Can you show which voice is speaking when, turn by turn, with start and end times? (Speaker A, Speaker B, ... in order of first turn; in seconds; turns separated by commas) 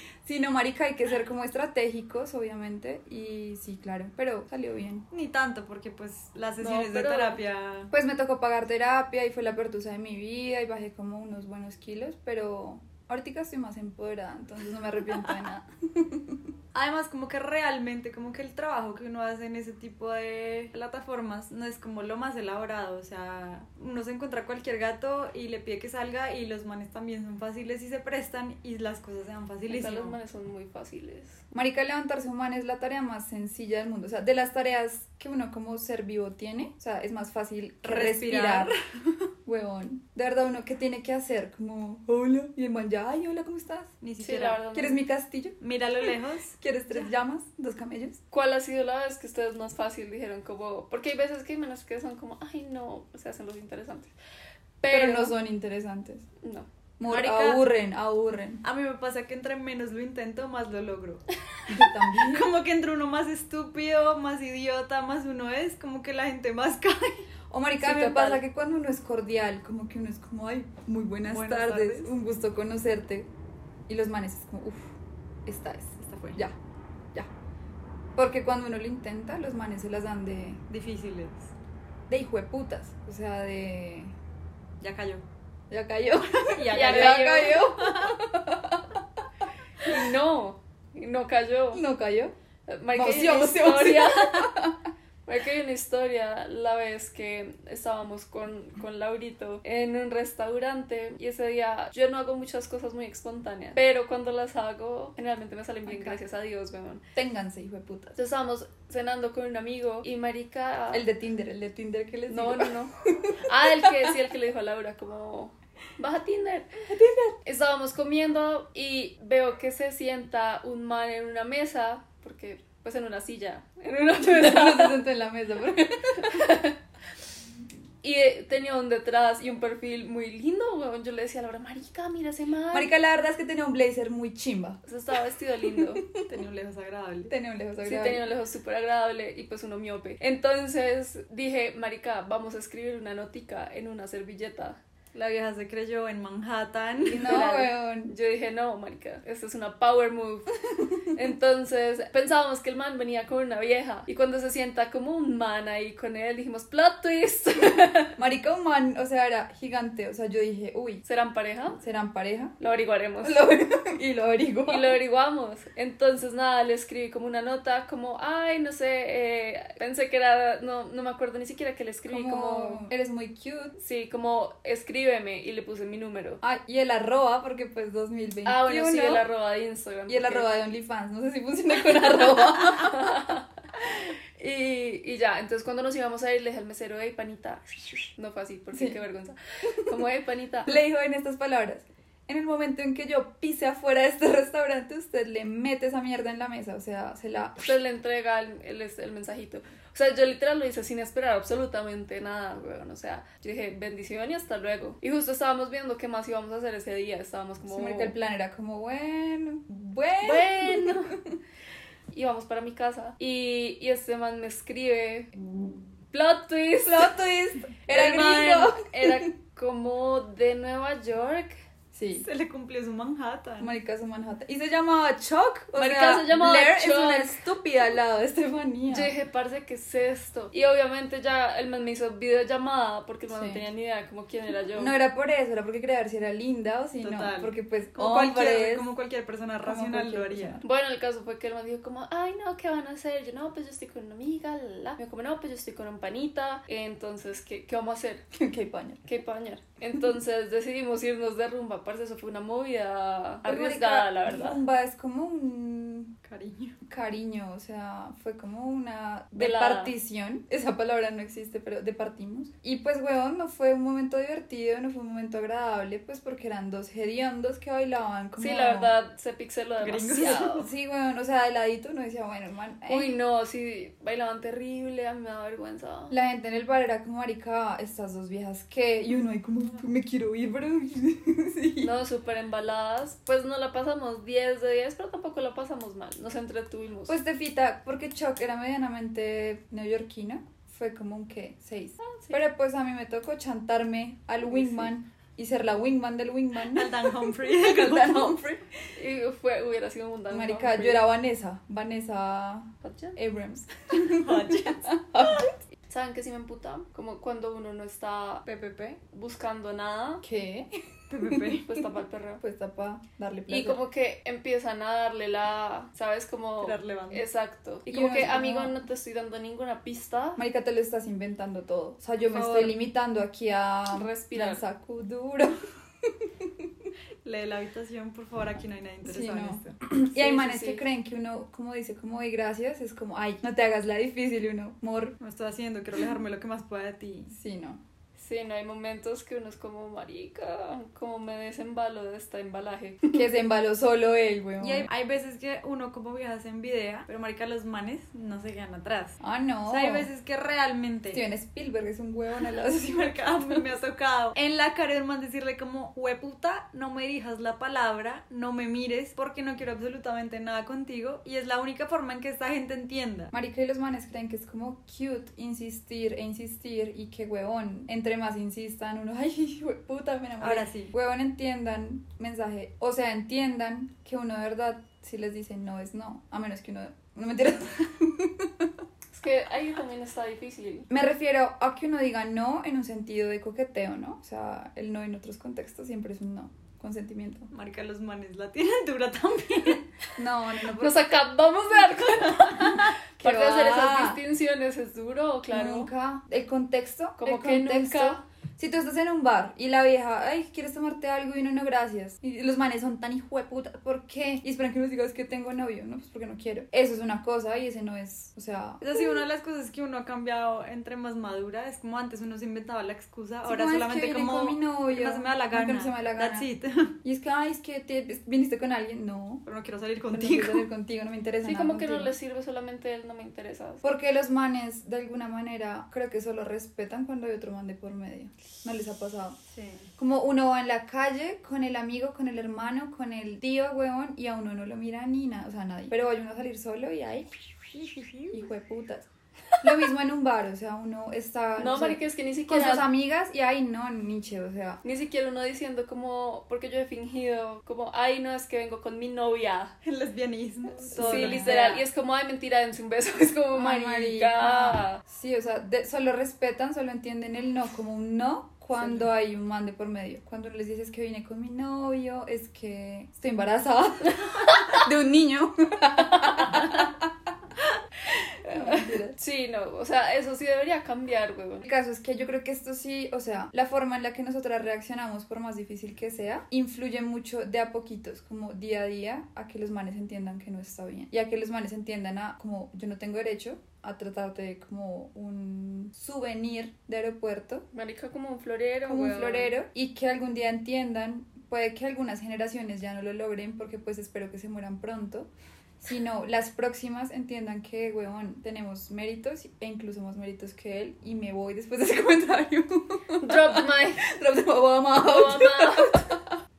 Speaker A: 0.2-5.0, Speaker B: 5.1-7.9, Speaker C: 6.6-7.4, Speaker A: 7.9-16.4, Speaker B: 16.7-30.2, Speaker C: 29.7-31.4, Speaker A: 31.5-38.7, Speaker B: 37.8-39.1, Speaker A: 39.4-43.9, Speaker B: 44.0-44.6, Speaker C: 44.2-45.0, Speaker A: 44.7-45.6, Speaker B: 45.6-46.6, Speaker A: 46.6-48.2, Speaker C: 48.3-54.1, Speaker C: 54.8-55.3, Speaker A: 54.9-56.2, Speaker C: 56.4-56.7, Speaker A: 57.0-58.6, Speaker B: 57.1-57.6, Speaker B: 58.6-61.2, Speaker A: 61.7-62.5, Speaker B: 62.0-67.3, Speaker A: 67.5-73.3, Speaker C: 67.8-68.4, Speaker B: 71.3-72.1, Speaker A: 73.9-74.9, Speaker A: 75.5-76.5, Speaker B: 76.0-76.4, Speaker A: 78.2-80.6, Speaker B: 80.7-81.5, Speaker A: 82.1-84.1, Speaker B: 84.8-85.2, Speaker A: 85.7-89.0, Speaker B: 86.4-88.1, Speaker C: 86.7-87.7, Speaker C: 89.8-91.8, Speaker A: 91.7-92.3, Speaker C: 92.7-94.5, Speaker A: 92.9-94.9, Speaker C: 95.2-107.0, Speaker A: 105.9-106.2, Speaker A: 107.2-108.1, Speaker C: 108.1-111.0, Speaker A: 110.9-114.1, Speaker C: 112.3-116.8, Speaker A: 116.9-117.4, Speaker C: 117.4-125.0, Speaker A: 124.2-126.5, Speaker C: 126.2-126.7, Speaker C: 128.0-132.9, Speaker A: 132.7-134.8, Speaker C: 134.8-136.0, Speaker A: 135.8-136.2, Speaker B: 136.2-137.3, Speaker A: 137.3-138.2, Speaker C: 137.8-144.8, Speaker B: 145.1-147.4, Speaker C: 147.1-158.2, Speaker A: 147.1-148.1, Speaker A: 158.2-161.0, Speaker C: 161.0-161.8, Speaker A: 161.8-162.5, Speaker C: 162.6-163.4, Speaker A: 163.2-164.9, Speaker C: 164.7-172.8, Speaker A: 172.1-173.7, Speaker C: 173.8-176.4, Speaker A: 176.4-179.2, Speaker C: 178.4-180.5, Speaker A: 180.1-183.2, Speaker C: 182.6-190.8, Speaker A: 188.7-189.0, Speaker A: 190.7-197.6, Speaker C: 197.6-208.1, Speaker A: 207.7-211.4, Speaker C: 210.2-211.2, Speaker C: 212.1-215.3, Speaker C: 216.1-217.2, Speaker A: 216.8-219.3, Speaker C: 217.9-221.6, Speaker A: 221.9-222.2, Speaker B: 222.1-223.7, Speaker A: 223.6-229.1, Speaker C: 225.8-227.4, Speaker C: 228.9-234.9, Speaker A: 233.3-233.6, Speaker A: 234.7-238.8, Speaker B: 237.0-240.6, Speaker A: 239.6-240.6, Speaker C: 240.6-248.2, Speaker A: 248.3-249.0, Speaker C: 249.0-254.6, Speaker A: 253.4-256.1, Speaker B: 256.2-256.8, Speaker A: 256.8-268.9, Speaker C: 259.3-259.9, Speaker C: 268.4-270.7, Speaker B: 269.8-270.6, Speaker A: 270.6-273.1, Speaker C: 272.9-276.1, Speaker A: 276.1-281.9, Speaker C: 281.8-287.1, Speaker A: 287.1-298.6, Speaker C: 292.0-292.4, Speaker C: 294.5-294.9, Speaker B: 296.7-298.4, Speaker C: 298.9-301.0, Speaker A: 300.3-305.6, Speaker C: 302.8-303.2, Speaker B: 303.9-304.9, Speaker C: 305.9-308.4, Speaker B: 308.4-309.0, Speaker C: 309.1-310.2, Speaker A: 310.2-310.7, Speaker B: 311.1-311.8, Speaker A: 311.2-311.6, Speaker C: 311.6-312.4, Speaker A: 312.4-313.8, Speaker C: 313.5-320.4, Speaker B: 316.6-317.2, Speaker A: 317.9-318.8, Speaker A: 320.4-326.7, Speaker B: 322.2-322.7, Speaker C: 323.9-324.6, Speaker B: 327.2-329.7, Speaker A: 329.0-335.2, Speaker C: 330.1-330.8, Speaker B: 335.2-337.4, Speaker A: 337.3-337.8, Speaker C: 338.2-343.2, Speaker A: 343.1-344.9, Speaker B: 344.6-351.2, Speaker A: 349.2-350.1, Speaker A: 351.1-353.6, Speaker B: 352.9-363.3, Speaker A: 363.3-378.7, Speaker B: 370.4-370.9, Speaker C: 379.1-380.9, Speaker A: 380.9-387.5, Speaker B: 387.5-389.9, Speaker A: 390.1-391.0, Speaker C: 390.8-395.9, Speaker A: 393.2-394.2, Speaker A: 395.5-409.2, Speaker C: 397.2-398.2, Speaker B: 408.8-416.9, Speaker A: 413.4-416.5, Speaker A: 417.0-419.4, Speaker B: 419.4-420.7, Speaker A: 420.1-422.1, Speaker C: 421.4-423.8, Speaker A: 423.8-429.4, Speaker B: 429.5-429.9, Speaker A: 430.0-439.1, Speaker A: 439.6-444.8, Speaker C: 441.6-442.9, Speaker C: 444.8-449.7, Speaker B: 449.8-451.6, Speaker A: 450.8-451.8, Speaker C: 451.0-455.0, Speaker A: 453.5-467.1, Speaker C: 464.4-464.8, Speaker A: 468.4-469.1, Speaker C: 468.4-471.6, Speaker A: 471.6-487.6, Speaker C: 487.7-489.5, Speaker A: 488.8-495.3, Speaker A: 495.8-506.4, Speaker C: 503.2-504.1, Speaker C: 505.0-506.1